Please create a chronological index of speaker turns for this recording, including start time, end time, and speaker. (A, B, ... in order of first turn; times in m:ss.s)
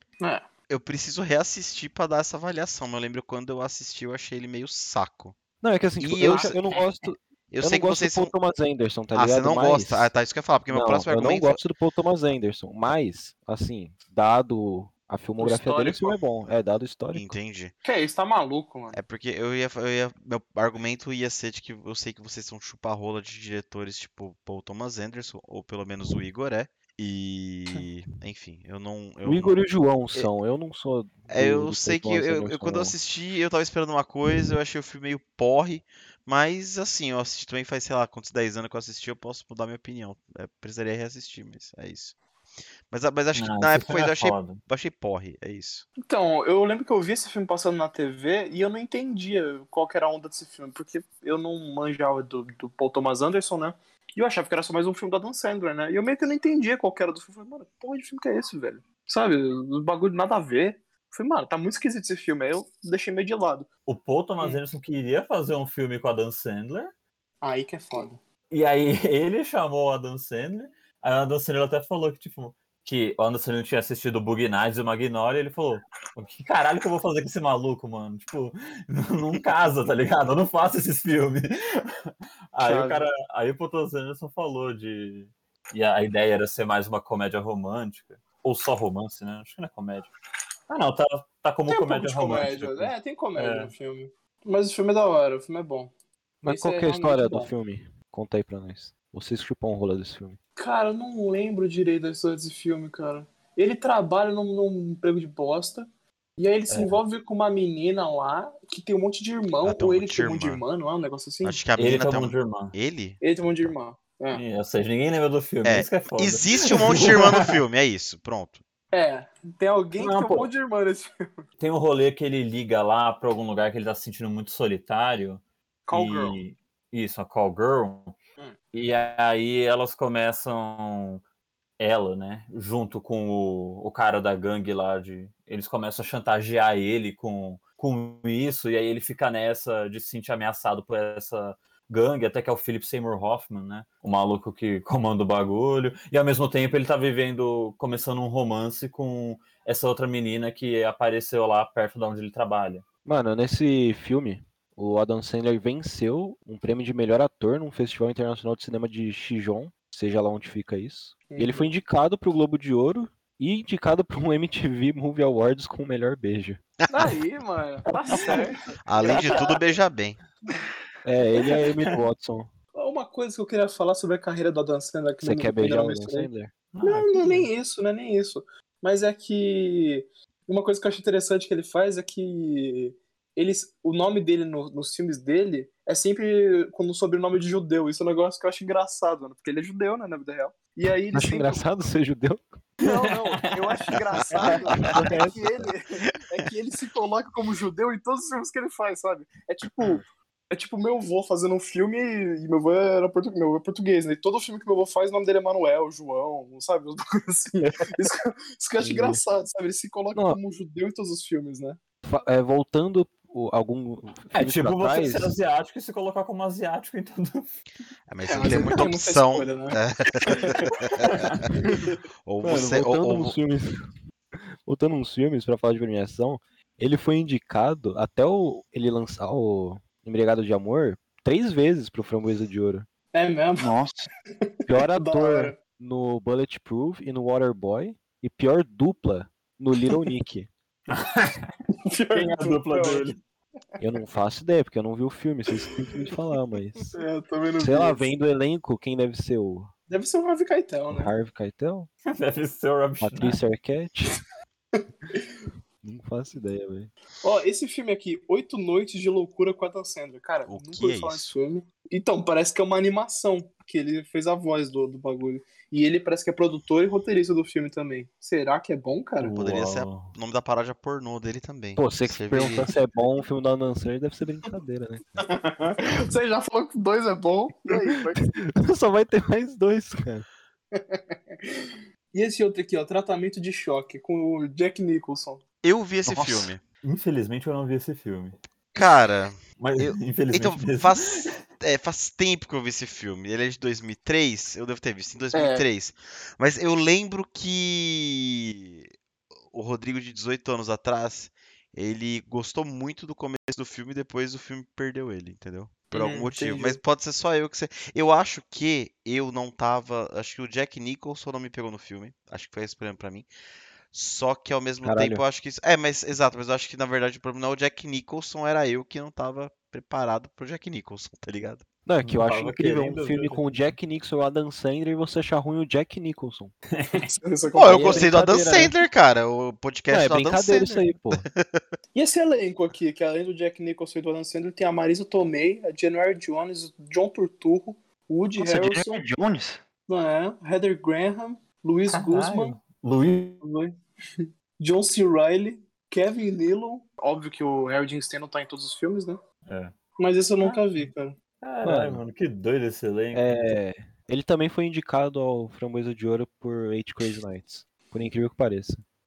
0:00.2-0:00.4 A
0:00.7-0:05.4 B
0:05.6-0:10.1 C
0:06.0-0:06.6 B
0:06.3-0:06.6 A
0:07.5-0:08.3 B
0:09.1-0:11.6 B
0:10.7-0:17.4 C
0:15.4-0:16.2 A
0:17.1-0:17.7 B
0:17.8-0:19.0 A
0:18.9-0:30.3 B
0:29.2-0:32.9 C
0:31.3-0:42.2 B
0:42.9-0:45.8 B
0:43.3-0:44.6 D
0:46.0-1:03.7 A
1:03.8-1:06.9 D
1:07.4-1:08.2 A
1:08.5-1:30.1 D
1:22.6-1:23.1 A
1:30.7-1:33.7 D
1:31.7-1:35.9 A
1:36.4-1:40.4 C
1:36.4-1:37.5 A
1:40.6-1:51.6 A
1:46.7-1:47.0 D
1:49.6-1:50.6 B
1:51.4-1:53.2 B
1:51.8-1:52.7 D
1:53.2-1:54.4 A
1:54.3-1:57.5 D
1:55.6-1:58.6 B
1:58.9-2:01.4 A
2:00.0-2:00.5 D
2:01.6-2:08.2 D
2:05.9-2:06.4 A
2:08.7-2:11.2 D
2:11.8-2:32.8 D
2:33.0-2:46.6 C
2:41.3-2:41.7 A
2:46.8-2:47.1 B
2:46.9-2:49.6 A
2:48.1-2:48.6 D
2:48.8-2:50.2 B
2:49.1-2:49.4 D
2:51.0-2:52.5 C
2:52.7-2:56.3 A
2:55.2-2:56.5 C
2:56.7-2:57.5 D
2:56.8-3:11.7 A
3:11.1-3:12.6 C
3:12.8-3:31.8 A
3:12.8-3:14.0 D
3:14.4-3:15.7 C
3:28.8-3:29.2 C
3:30.1-3:30.4 C
3:32.0-3:35.4 C
3:34.3-3:37.5 D
3:38.1-3:41.2 B
3:38.2-3:40.6 A
3:40.5-3:41.4 D
3:41.6-3:42.0 A
3:42.2-3:43.4 B
3:42.4-3:43.9 C
3:44.6-3:52.9 C
3:53.1-3:53.8 A
3:53.6-3:54.1 E
3:54.7-4:00.5 C
3:54.7-3:55.6 A
4:00.9-4:01.5 D
4:01.8-4:03.1 A
4:02.1-4:03.2 D
4:03.8-4:07.0 C
4:05.6-4:06.1 A
4:06.9-4:08.1 A
4:07.6-4:09.7 C
4:09.9-4:11.1 A
4:10.9-4:11.9 C
4:12.0-4:13.4 D
4:13.0-4:14.2 C
4:15.8-4:16.9 C
4:17.2-4:29.4 A
4:20.5-4:21.3 B
4:29.2-4:30.1 D
4:29.3-4:32.7 B
4:31.8-4:35.2 C
4:35.2-4:38.2 A
4:38.2-4:40.2 C
4:40.7-4:45.4 A
4:45.6-4:46.6 B
4:46.1-4:46.5 E
4:46.8-4:48.4 D
4:48.7-4:58.9 B
4:49.6-4:51.3 D
4:55.3-4:55.6 A
4:59.5-5:13.3 B
5:05.9-5:06.8 A
5:13.9-5:21.6 B
5:14.8-5:15.2 C
5:21.8-5:26.5 C
5:22.0-5:23.6 D
5:26.7-5:27.1 D
5:27.0-5:28.1 A
5:27.5-5:31.6 B
5:27.6-5:28.7 C
5:29.9-5:31.3 C
5:31.9-5:39.0 A
5:38.4-5:39.6 E
5:39.9-5:42.6 A
5:41.9-5:43.4 D
5:43.4-5:49.2 A
5:49.5-5:49.8 D
5:50.0-5:51.2 A
5:50.4-5:50.9 D
5:51.4-5:53.5 D
5:51.6-5:52.0 C
5:53.1-5:58.8 C